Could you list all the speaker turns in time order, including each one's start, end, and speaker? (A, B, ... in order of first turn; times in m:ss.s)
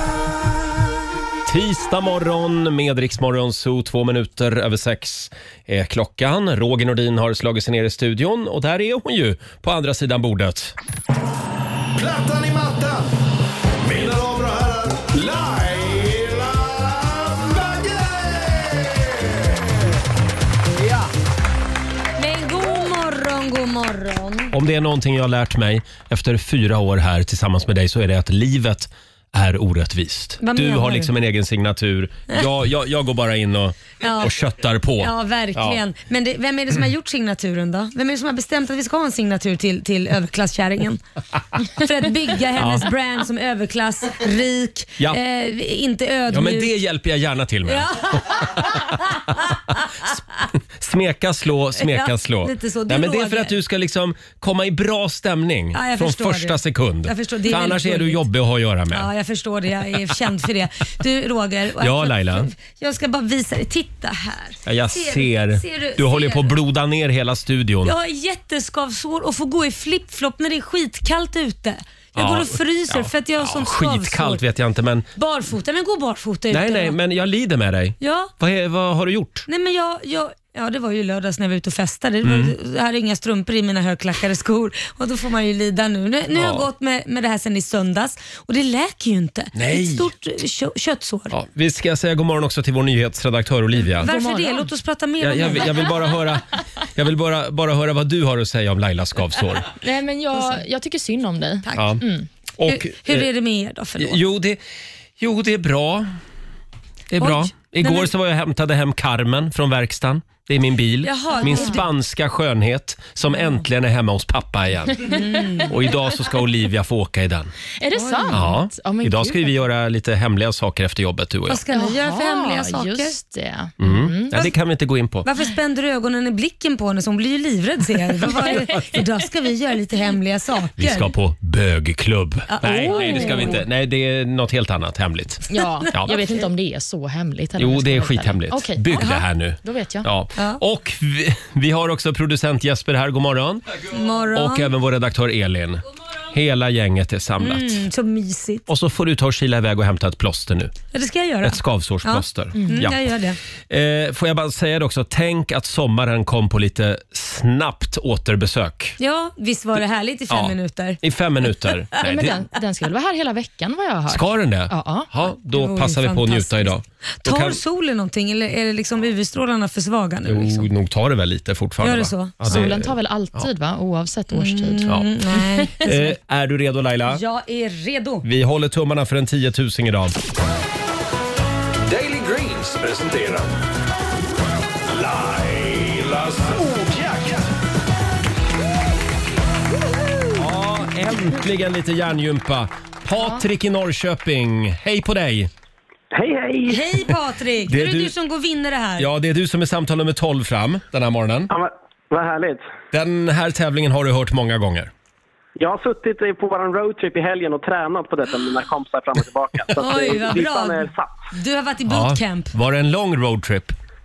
0:01.5-0:10.8 A
0:12.0-0:13.0 B
0:13.8-0:19.4 B
0:22.2-0:24.5 C
0:24.5-0:35.8 A
0:30.4-0:31.1 C
0:34.0-0:34.3 C
0:35.0-0:41.0 C
0:41.6-0:46.7 C
0:42.6-0:42.9 A
0:46.3-0:49.1 A
0:47.7-0:50.1 C
0:50.8-0:59.1 A
0:51.8-0:53.6 C
0:55.7-0:58.2 C
0:58.9-1:06.5 C
1:01.8-1:02.5 A
1:04.7-1:08.0 A
1:07.8-1:14.4 C
1:12.2-1:15.1 A
1:15.2-1:17.0 C
1:16.5-1:19.5 A
1:18.0-1:18.3 C
1:19.5-1:31.3 C
1:22.2-1:22.5 A
1:26.3-1:26.7 A
1:29.6-1:30.1 A
1:31.3-1:34.1 A
1:34.0-1:34.7 D
1:34.0-1:35.9 C
1:35.2-1:39.7 A
1:39.8-1:42.3 D
1:41.6-1:42.0 C
1:41.8-1:42.0 A
1:42.6-1:43.3 A
1:42.6-1:44.2 C
1:44.0-1:44.6 A
1:45.2-1:46.1 A
1:47.1-1:55.2 A
1:47.2-1:48.1 C
1:51.0-1:51.8 C
1:51.5-1:51.7 D
1:55.0-1:55.7 C
1:55.7-1:57.5 A
1:57.8-1:59.5 D
1:57.9-1:58.4 C
1:58.3-2:01.6 A
2:01.5-2:03.2 C
2:01.7-2:04.4 D
2:03.8-2:05.3 A
2:05.2-2:11.1 C
2:10.8-2:16.2 A
2:12.5-2:13.6 C
2:12.9-2:13.6 D
2:15.5-2:20.1 D
2:17.6-2:23.8 A
2:19.0-2:19.2 C
2:20.4-2:20.6 C
2:23.9-2:24.7 C
2:24.3-2:27.8 A
2:27.4-2:28.7 C
2:28.7-2:30.8 A
2:30.9-2:33.4 C
2:31.4-2:33.0 A
2:32.6-2:32.8 D
2:33.7-2:39.0 A
2:39.0-2:41.0 C
2:40.3-2:42.4 A
2:42.0-2:45.1 D
2:44.1-2:47.6 A
2:45.5-2:50.7 C
2:50.3-2:53.4 A
2:51.8-2:52.7 C
2:52.5-2:54.9 D
2:54.3-2:56.1 C
2:55.8-2:57.2 A
2:57.1-2:58.2 C
2:58.2-3:00.2 A
3:01.9-3:03.5 B
3:04.9-3:07.5 B
3:10.4-3:15.5 A
3:16.1-3:17.0 E
3:16.7-3:19.1 C
3:17.7-3:18.1 A
3:19.0-3:21.5 A
3:21.5-3:22.6 E
3:22.9-3:24.9 A
3:25.6-3:31.1 E
3:29.8-3:32.5 C
3:31.9-3:33.8 A